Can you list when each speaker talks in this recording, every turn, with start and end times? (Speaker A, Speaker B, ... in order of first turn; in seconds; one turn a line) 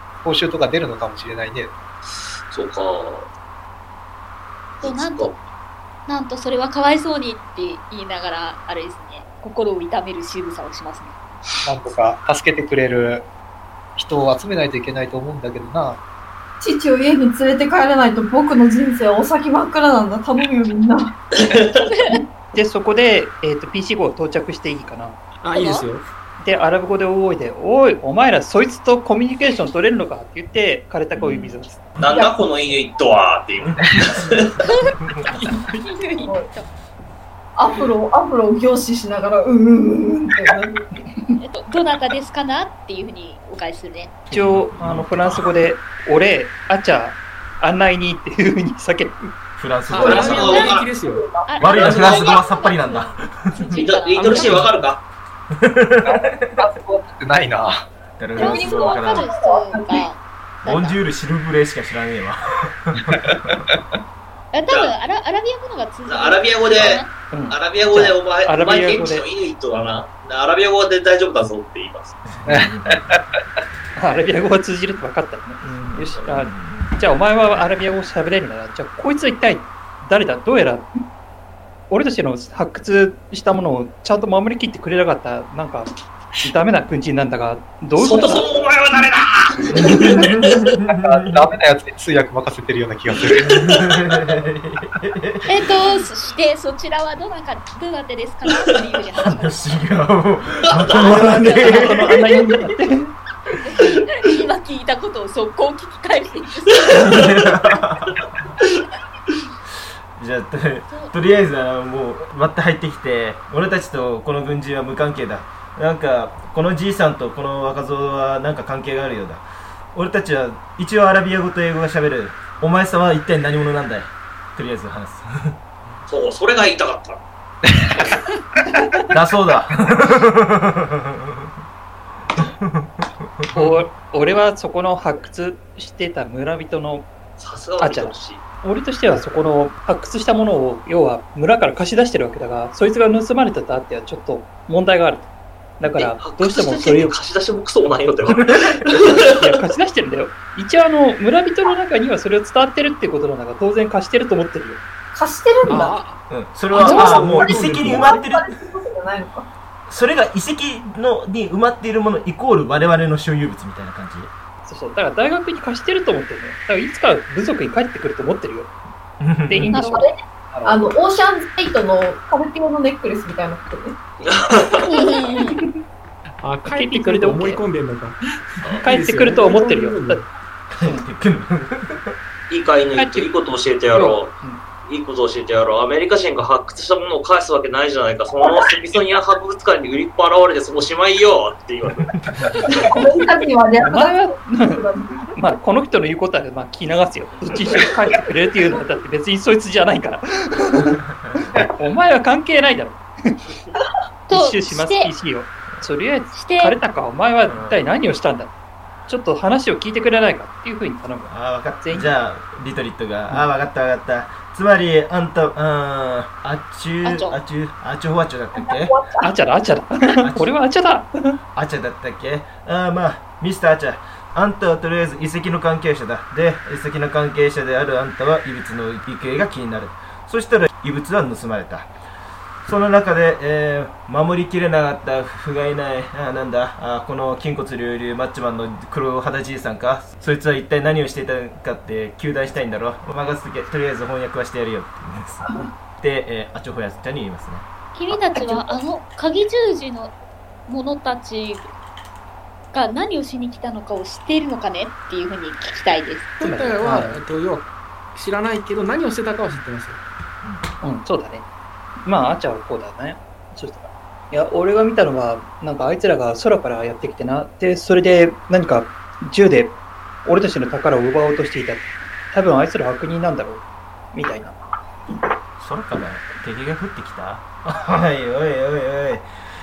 Speaker A: 0.2-1.7
Speaker B: 2.1-3.3
Speaker C: 4.8-5.4
Speaker B: 4.8-5.3
Speaker C: 6.1-11.1
Speaker A: 11.7-13.3
Speaker A: 13.9-16.0
Speaker D: 16.6-21.1
Speaker B: 21.5-21.8
Speaker C: 21.7-22.2
Speaker E: 22.5-25.2
Speaker F: 25.4-26.0
Speaker C: 25.5-25.9
Speaker E: 26.4-31.9
Speaker G: 31.2-31.6
Speaker B: 32.0-34.5
Speaker G: 35.0-35.3
Speaker C: 35.6-36.7
Speaker D: 36.2-36.4
Speaker D: 37.5-41.4
Speaker C: 41.4-44.2
Speaker G: 44.3-45.6
Speaker E: 44.3-49.3
Speaker G: 49.6-50.6
Speaker F: 49.9-51.2
Speaker B: 50.0-50.9
Speaker D: 50.0-52.3
Speaker C: 50.2-50.8
Speaker C: 51.5-54.5
Speaker G: 51.6-54.7
Speaker B: 51.8-52.3
Speaker B: 53.7-55.0
Speaker F: 54.1-54.7
Speaker G: 55.6-56.7
Speaker A: 56.0-57.9
Speaker G: 58.2-59.2
Speaker D: 58.3-60.1
Speaker C: 58.4-61.0
Speaker G: 60.6-63.6
Speaker A: 63.2-63.8
Speaker C: 64.5-67.1
Speaker B: 64.7-64.9
Speaker B: 66.1-72.1
Speaker E: 67.3-69.3
Speaker G: 72.3-73.0
Speaker A: 72.5-73.2
Speaker E: 74.0-81.0
Speaker G: 75.6-77.0
Speaker E: 81.9-85.9
Speaker E: 86.4-88.5
Speaker B: 88.0-90.6
Speaker G: 89.7-91.5
Speaker A: 91.0-93.7
Speaker G: 93.3-96.0
Speaker C: 95.5-99.7
Speaker G: 99.2-102.2
Speaker B: 100.6-101.2
Speaker E: 101.0-103.1
Speaker C: 101.2-102.1
Speaker C: 103.5-106.9
Speaker B: 106.8-107.4
Speaker G: 106.9-108.2
Speaker G: 110.2-125.5
Speaker C: 110.9-111.2
Speaker B: 126.1-127.2
Speaker A: 127.6-128.2
Speaker G: 129.1-131.1
Speaker G: 132.3-133.8
Speaker E: 133.5-137.1
Speaker B: 137.4-138.4
Speaker E: 137.8-147.2
Speaker B: 145.8-149.6
Speaker G: 148.2-148.7
Speaker E: 149.2-154.8
Speaker D: 155.1-156.0
Speaker F: 155.7-156.2
Speaker G: 156.3-158.5
Speaker F: 156.7-158.1
Speaker D: 156.7-159.4
Speaker G: 159.9-164.3
Speaker E: 164.6-168.7
Speaker G: 169.2-169.8
Speaker E: 169.5-170.1
Speaker C: 169.7-170.0
Speaker D: 169.9-173.9
Speaker A: 170.5-170.9
Speaker B: 174.2-174.9
Speaker C: 174.8-175.6
Speaker F: 176.4-178.2
Speaker E: 176.7-177.6
Speaker B: 178.6-178.9
Speaker E: 178.8-180.2
Speaker F: 178.8-180.3
Speaker G: 180.7-182.1
Speaker B: 182.5-184.3
Speaker E: 182.9-183.3
Speaker E: 183.9-184.6
Speaker B: 184.8-192.1
Speaker G: 191.8-192.6
Speaker D: 192.7-195.3
Speaker E: 193.8-201.0
Speaker E: 201.8-203.4
Speaker C: 204.3-205.1
Speaker E: 204.3-208.5
Speaker C: 206.3-206.8
Speaker G: 207.5-207.8
Speaker E: 209.1-211.3
Speaker G: 211.3-218.9
Speaker E: 211.8-212.2
Speaker C: 217.0-217.4
Speaker D: 218.5-219.3
Speaker E: 219.2-221.4
Speaker G: 220.2-220.5
Speaker G: 221.5-231.9
Speaker G: 232.6-247.7
Speaker C: 247.9-250.1
Speaker D: 248.1-248.8
Speaker C: 250.7-251.7
Speaker C: 252.7-256.4
Speaker F: 256.4-260.0
Speaker E: 256.4-257.2
Speaker E: 260.8-261.4
Speaker E: 262.0-274.6
Speaker G: 275.6-279.2